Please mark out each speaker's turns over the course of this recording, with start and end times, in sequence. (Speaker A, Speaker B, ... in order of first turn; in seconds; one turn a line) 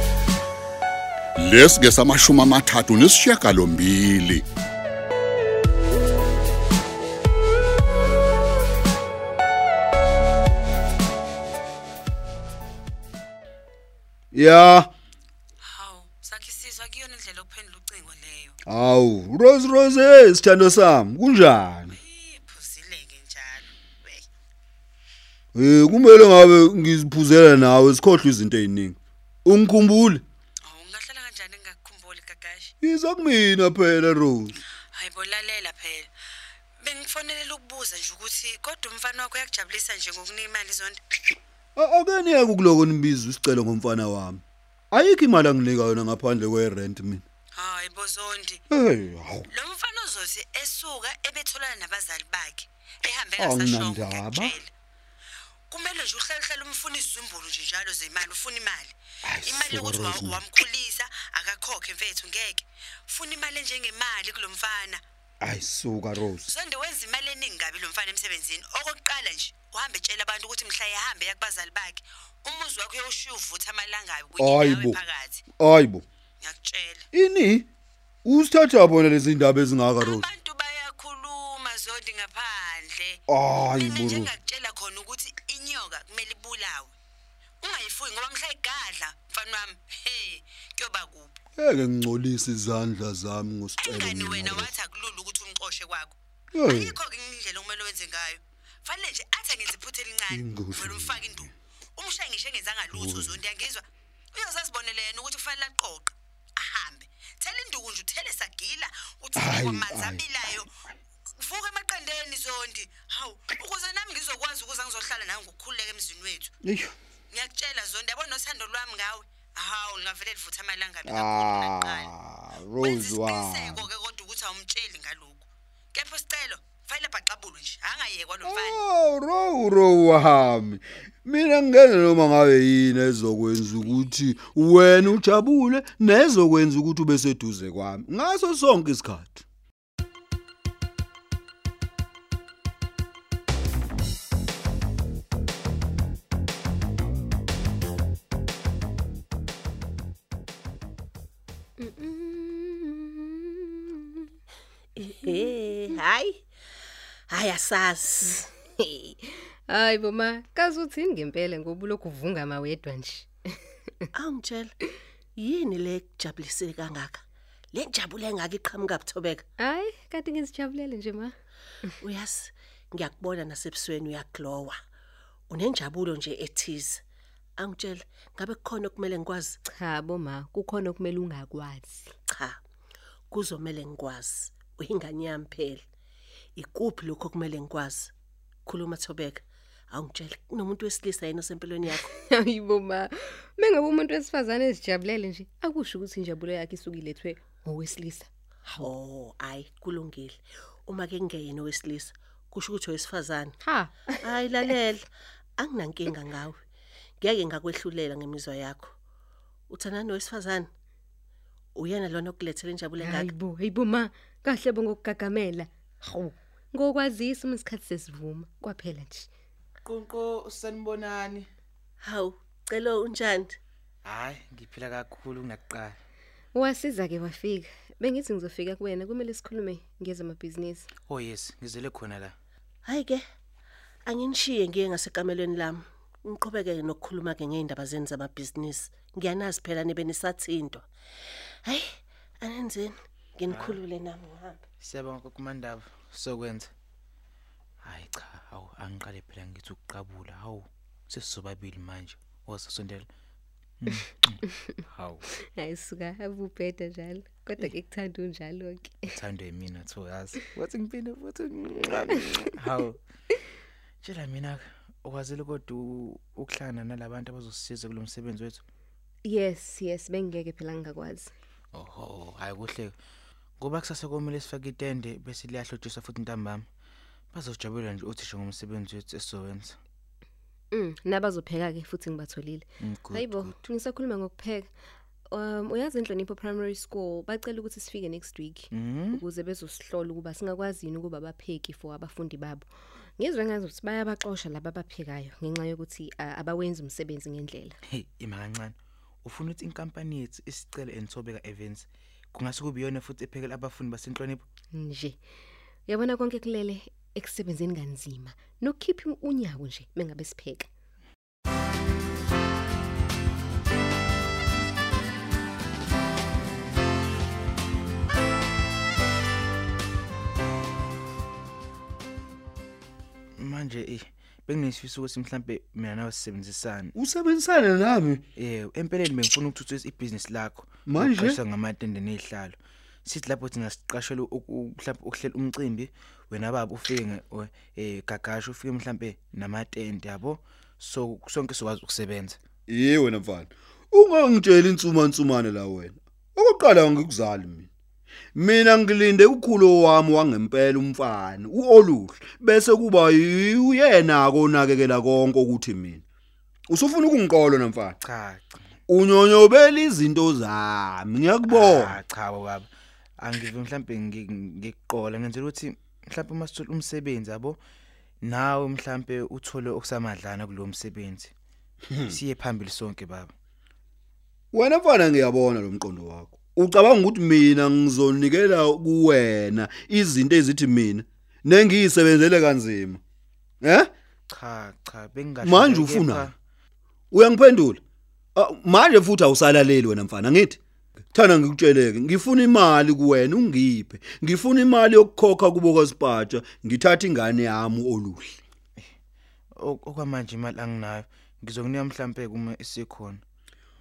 Speaker A: 1.4-4.5
Speaker B: 14.3-14.9
Speaker C: 15.6-18.6
Speaker B: 18.7-21.9
Speaker C: 21.9-24.3
Speaker B: 25.6-30.2
Speaker C: 30.6-32.7
Speaker B: 32.8-34.6
Speaker C: 34.9-36.1
Speaker C: 36.8-41.0
Speaker B: 41.8-47.2
Speaker C: 47.6-48.6
Speaker B: 48.7-49.5
Speaker C: 49.5-54.7
Speaker B: 53.4-54.6
Speaker C: 55.7-65.0
Speaker B: 59.2-60.4
Speaker B: 65.4-66.5
Speaker C: 66.5-75.4
Speaker B: 74.4-75.0
Speaker B: 75.6-76.0
Speaker C: 76.4-77.1
Speaker B: 77.1-77.7
Speaker B: 78.2-80.3
Speaker C: 80.0-83.2
Speaker B: 83.3-84.3
Speaker C: 83.7-86.9
Speaker C: 87.6-91.3
Speaker B: 91.6-94.7
Speaker C: 93.8-110.7
Speaker B: 96.5-97.0
Speaker B: 100.3-101.5
Speaker B: 102.9-103.4
Speaker B: 109.4-110.4
Speaker C: 111.4-116.5
Speaker B: 116.6-117.0
Speaker C: 117.3-122.1
Speaker B: 121.0-123.9
Speaker C: 122.8-128.8
Speaker B: 128.4-139.4
Speaker D: 151.8-154.2
Speaker D: 155.3-155.5
Speaker E: 155.4-156.2
Speaker E: 157.3-158.2
Speaker D: 158.8-163.9
Speaker E: 164.2-164.7
Speaker E: 165.4-167.2
Speaker E: 167.8-169.4
Speaker D: 169.6-171.3
Speaker E: 172.1-174.7
Speaker E: 175.5-177.0
Speaker E: 177.6-179.6
Speaker D: 179.7-182.2
Speaker E: 183.3-185.8
Speaker E: 186.6-188.1
Speaker E: 188.7-189.4
Speaker E: 190.0-191.8
Speaker D: 192.0-198.9
Speaker E: 199.0-203.5
Speaker D: 203.6-204.7
Speaker E: 204.4-205.0
Speaker E: 205.6-206.6
Speaker E: 207.2-208.9
Speaker E: 209.7-210.7
Speaker E: 211.8-213.2
Speaker D: 213.0-219.3
Speaker F: 219.8-221.5
Speaker E: 222.1-223.5
Speaker F: 224.1-226.0
Speaker D: 226.5-230.9
Speaker F: 231.1-232.3
Speaker E: 232.9-233.2
Speaker E: 234.1-240.8
Speaker E: 242.4-242.9
Speaker F: 243.5-243.9
Speaker E: 243.8-244.5
Speaker F: 244.8-246.7
Speaker F: 247.8-253.1
Speaker F: 253.8-255.2
Speaker D: 255.5-259.1
Speaker F: 259.1-263.0
Speaker F: 264.0-268.6
Speaker D: 269.2-271.3
Speaker F: 271.7-272.9
Speaker F: 273.6-276.7
Speaker F: 277.3-279.8
Speaker D: 280.7-284.7
Speaker F: 282.8-283.6
Speaker D: 285.3-297.8
Speaker F: 288.7-289.2
Speaker F: 297.9-304.4
Speaker D: 304.8-305.2
Speaker D: 305.9-310.7
Speaker F: 323.4-326.9
Speaker B: 326.9-328.2
Speaker F: 328.4-342.4
Speaker B: 330.9-331.4
Speaker B: 342.7-347.7
Speaker B: 348.4-356.0
Speaker B: 356.7-358.0
Speaker F: 358.0-358.5
Speaker B: 358.9-362.0
Speaker F: 361.5-362.7
Speaker F: 363.2-367.6
Speaker F: 368.2-371.3
Speaker F: 372.1-373.3
Speaker B: 374.5-383.0
Speaker B: 383.6-383.9
Speaker F: 384.3-386.3
Speaker B: 385.4-386.3
Speaker B: 387.1-387.8
Speaker B: 388.4-390.6
Speaker B: 391.1-398.2
Speaker F: 399.6-403.2